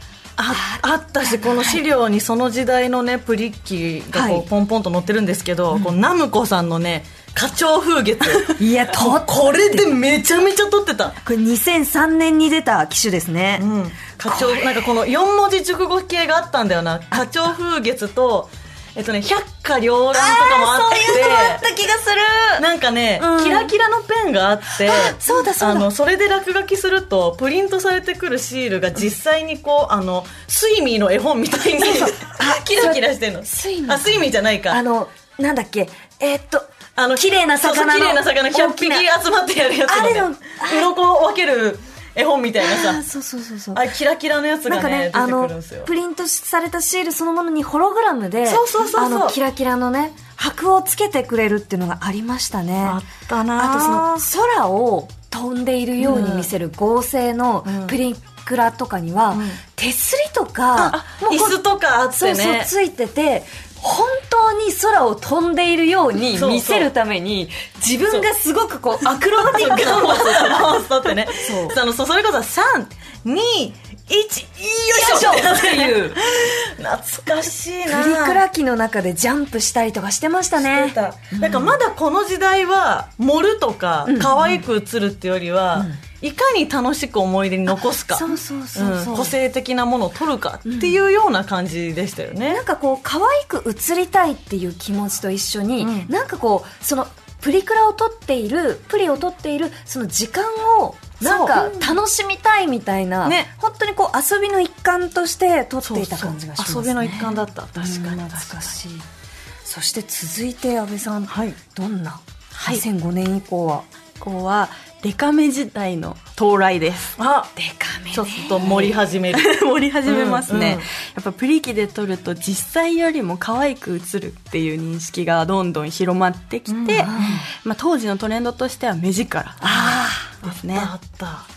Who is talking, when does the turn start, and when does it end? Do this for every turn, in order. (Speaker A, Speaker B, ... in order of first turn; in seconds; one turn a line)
Speaker A: 0.4-11.2
Speaker B: 0.5-1.8
Speaker B: 4.1-4.5
Speaker B: 8.5-9.9
Speaker B: 11.2-13.7
Speaker A: 13.6-21.6
Speaker B: 14.2-14.9
Speaker B: 20.1-22.6
Speaker A: 22.6-34.8
Speaker B: 23.2-23.7
Speaker B: 24.8-25.9
Speaker B: 31.8-39.1
Speaker A: 37.0-43.0
Speaker B: 39.9-40.9
Speaker B: 42.6-43.9
Speaker A: 43.7-45.9
Speaker B: 44.7-53.0
Speaker A: 48.5-49.4
Speaker A: 52.8-54.2
Speaker B: 53.6-61.6
Speaker A: 56.0-56.5
Speaker A: 57.6-58.0
Speaker A: 59.3-59.6
Speaker A: 60.8-62.7
Speaker B: 62.1-71.8
Speaker A: 66.3-66.9
Speaker A: 69.0-78.4
Speaker B: 74.9-76.2
Speaker B: 77.8-81.8
Speaker A: 80.6-92.6
Speaker B: 84.0-84.6
Speaker B: 88.1-89.3
Speaker B: 90.7-91.0
Speaker B: 92.5-109.0
Speaker A: 95.8-96.1
Speaker A: 101.2-102.0
Speaker A: 103.2-103.5
Speaker A: 105.8-108.8
Speaker B: 109.6-113.8
Speaker A: 111.3-111.6
Speaker C: 112.5-112.8
Speaker C: 114.2-117.2
Speaker A: 117.2-117.5
Speaker B: 117.5-119.0
Speaker A: 118.1-119.5
Speaker C: 119.3-130.9
Speaker A: 120.0-120.8
Speaker A: 126.7-127.4
Speaker B: 127.0-127.5
Speaker B: 129.6-130.3
Speaker A: 130.4-131.5